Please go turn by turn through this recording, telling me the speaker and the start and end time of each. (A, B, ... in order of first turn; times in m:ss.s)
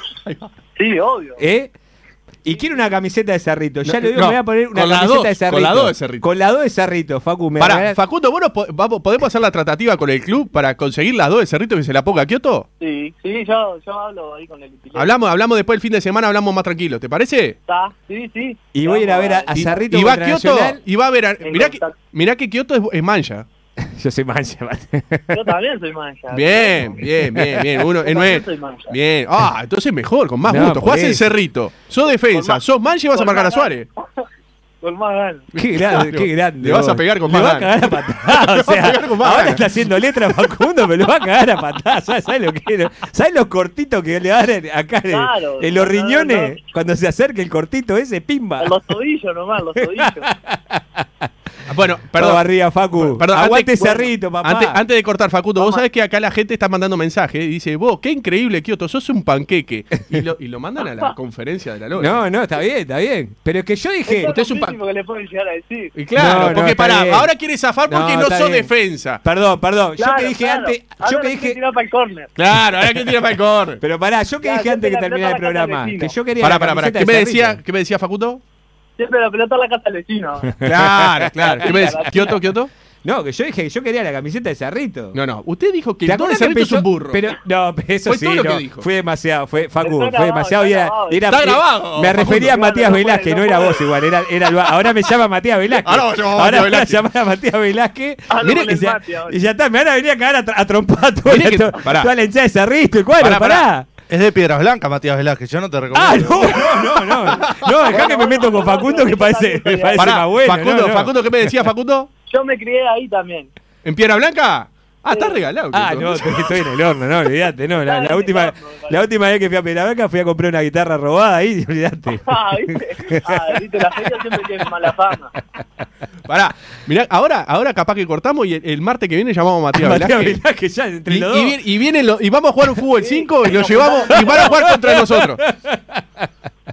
0:00.8-0:01.4 A
0:01.4-0:01.7 B
0:02.4-0:08.0 B
0:03.8-0:06.3 C
0:07.6-0:12.7 C
0:12.8-0:15.1 A
0:15.0-0:17.6 C
0:17.7-0:19.8 A
0:18.7-0:20.8 B
0:19.6-0:23.5 C
0:21.4-0:22.0 A
0:23.8-0:25.5 B
0:25.3-0:27.0 A
0:26.3-0:33.9 C
0:27.1-0:27.8 B
0:28.0-0:28.9 A
0:30.5-0:31.3 B
0:32.3-0:32.6 A
0:33.1-0:34.0 A
0:34.8-0:35.5 A
0:35.5-0:39.6 C
0:35.6-0:48.7 B
0:45.1-0:46.6 A
0:48.6-0:50.3 A
0:49.8-0:51.3 B
0:51.7-0:52.4 C
0:52.2-0:54.8 B
0:53.0-1:02.2 C
0:55.6-0:55.8 A
1:02.0-1:04.3 B
1:04.1-1:06.0 A
1:04.3-1:04.8 C
1:06.0-1:09.2 C
1:06.2-1:07.3 B
1:07.9-1:08.7 B
1:09.2-1:11.6 B
1:10.0-1:12.3 A
1:12.4-1:13.8 C
1:13.8-1:17.6 B
1:14.4-1:16.2 A
1:16.4-1:18.4 C
1:19.0-1:20.6 A
1:20.6-1:21.7 B
1:20.6-1:22.7 C
1:21.6-1:22.4 A
1:23.0-1:25.2 B
1:25.1-1:27.3 C
1:26.0-1:43.9 B
1:28.0-1:28.9 C
1:29.8-1:31.3 A
1:31.3-1:32.6 C
1:32.4-1:33.8 A
1:35.8-1:37.0 C
1:38.3-1:39.4 A
1:41.3-1:42.1 C
1:43.2-1:43.7 C
1:44.1-1:46.9 D
1:45.9-1:51.6 B
1:47.3-1:50.1 A
1:47.4-1:48.0 C
1:50.0-1:52.1 C
1:52.3-1:53.5 A
1:53.8-1:56.5 C
1:55.1-1:55.4 A
1:55.7-2:04.6 B
1:57.8-1:59.0 A
2:02.3-2:05.4 A
2:06.3-2:10.4 C
2:09.7-2:11.6 B
2:11.1-2:15.4 C
2:13.0-2:14.6 A
2:14.1-2:16.3 B